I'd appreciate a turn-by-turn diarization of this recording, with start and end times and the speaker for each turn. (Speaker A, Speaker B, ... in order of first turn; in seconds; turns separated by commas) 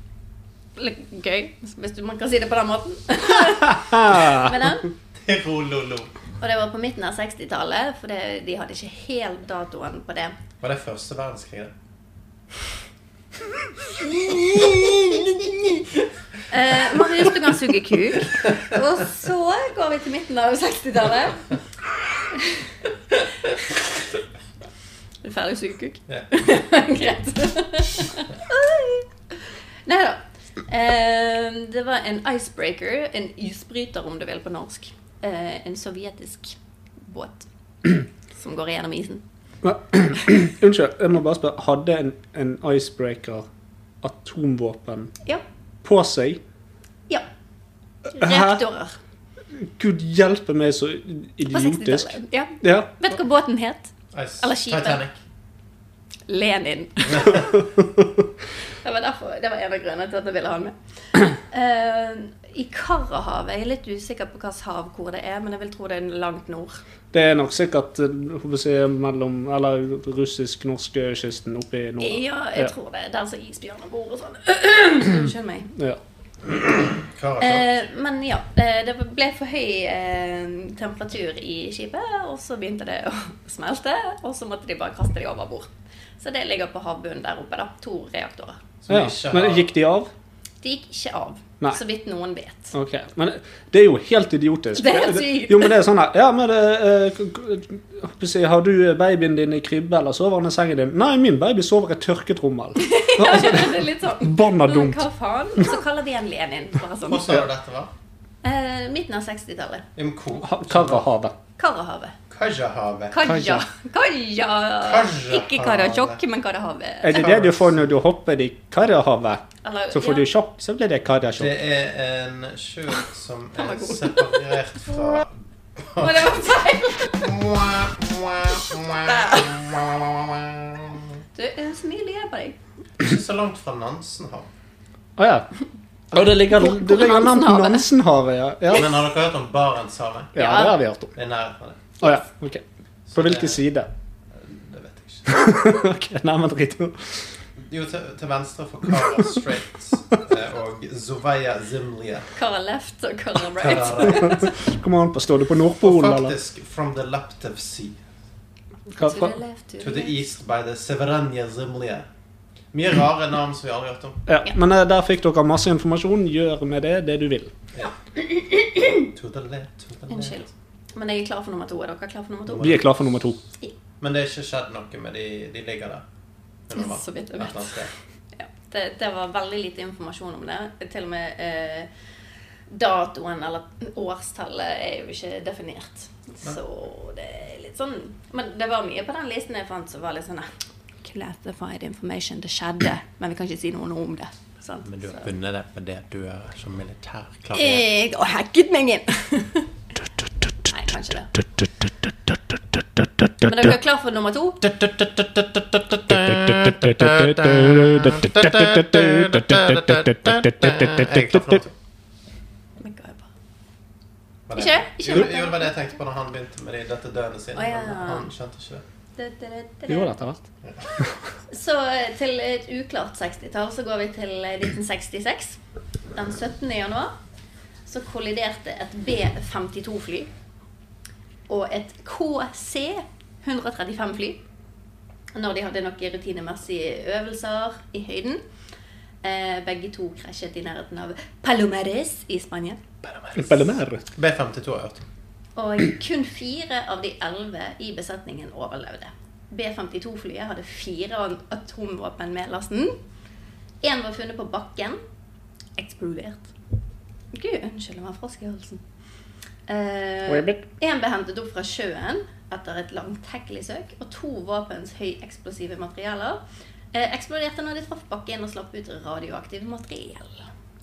Speaker A: 0.8-4.9, Speaker B: 4.1-4.5, Speaker C: 5.2-6.1, Speaker A: 6.4-10.3, Speaker C: 10.6-11.7, Speaker A: 16.5-21.4, Speaker A: 22.3-23.3, Speaker A: 25.2-29.4, Speaker A: 29.9-39.2, Speaker B: 39.6-43.5, Speaker B: 44.0-45.1, Speaker B: 45.8-46.4, Speaker A: 48.1-49.0, Speaker B: 48.2-48.6, Speaker B: 49.5-52.9, Speaker A: 51.5-55.0, Speaker C: 54.1-55.2, Speaker A: 56.3-57.5, Speaker A: 58.8-66.8, Speaker B: 67.1-72.7, Speaker A: 72.0-75.7, Speaker C: 76.5-77.7, Speaker A: 77.4-85.7, Speaker A: 86.2-88.6, Speaker C: 88.8-89.7, Speaker B: 88.9-90.1, Speaker A: 90.6-92.8, Speaker B: 92.7-105.0, Speaker A: 94.8-95.8, Speaker A: 102.8-107.4, Speaker C: 107.0-107.9, Speaker A: 108.4-109.9, Speaker C: 110.0-111.1, Speaker B: 110.4-111.3, Speaker A: 111.6-112.2, Speaker C: 112.3-113.2, Speaker A: 113.1-117.3, Speaker B: 113.2-113.7, Speaker C: 114.8-116.2, Speaker B: 117.0-121.5, Speaker C: 117.1-117.8, Speaker A: 119.6-120.3, Speaker C: 121.4-126.4, Speaker A: 123.6-124.5, Speaker A: 126.0-127.3, Speaker C: 127.2-131.1, Speaker A: 129.0-129.6, Speaker A: 131.3-132.6, Speaker C: 133.0-134.5, Speaker B: 135.2-135.5, Speaker B: 136.1-138.9, Speaker A: 136.4-137.9, Speaker C: 138.7-140.4, Speaker B: 140.3-141.1, Speaker A: 140.4-140.8, Speaker C: 141.2-142.0, Speaker B: 142.0-142.6, Speaker C: 143.1-143.6, Speaker B: 143.2-143.9, Speaker C: 144.3-145.4, Speaker B: 145.3-147.3, Speaker C: 147.6-152.3, Speaker A: 152.3-154.5, Speaker C: 153.4-154.5, Speaker B: 154.3-156.3, Speaker C: 155.8-158.0, Speaker B: 158.9-159.3, Speaker A: 158.9-160.2, Speaker C: 159.8-162.1, Speaker C: 162.7-164.2, Speaker B: 164.3-167.5, Speaker A: 168.5-169.1, Speaker C: 169.0-170.5, Speaker A: 170.1-172.8, Speaker B: 172.5-173.4, Speaker C: 172.5-172.8, Speaker C: 174.0-176.0, Speaker C: 176.7-177.9, Speaker A: 176.8-177.8, Speaker A: 178.3-181.9, Speaker A: 182.7-190.5, Speaker A: 191.0-195.3, Speaker C: 194.8-197.8, Speaker A: 197.6-199.7, Speaker A: 200.7-201.3, Speaker B: 203.2-203.5, Speaker A: 203.4-204.6, Speaker C: 204.6-211.8, Speaker B: 206.1-211.6, Speaker A: 212.8-213.2, Speaker C: 214.5-218.8, Speaker A: 214.6-215.8, Speaker A: 217.5-218.3, Speaker A: 219.2-220.1, Speaker B: 219.9-220.4, Speaker C: 220.6-221.0, Speaker A: 221.5-225.6, Speaker A: 226.1-227.1, Speaker A: 227.9-230.3, Speaker A: 231.5-234.4, Speaker A: 235.3-238.4, Speaker A: 239.2-242.8, Speaker C: 243.0-245.1, Speaker B: 243.4-244.0, Speaker A: 245.6-253.0, Speaker A: 253.8-255.0, Speaker A: 255.8-256.5, Speaker A: 257.3-258.8, Speaker A: 259.7-266.4, Speaker B: 260.3-260.6, Speaker A: 266.9-270.5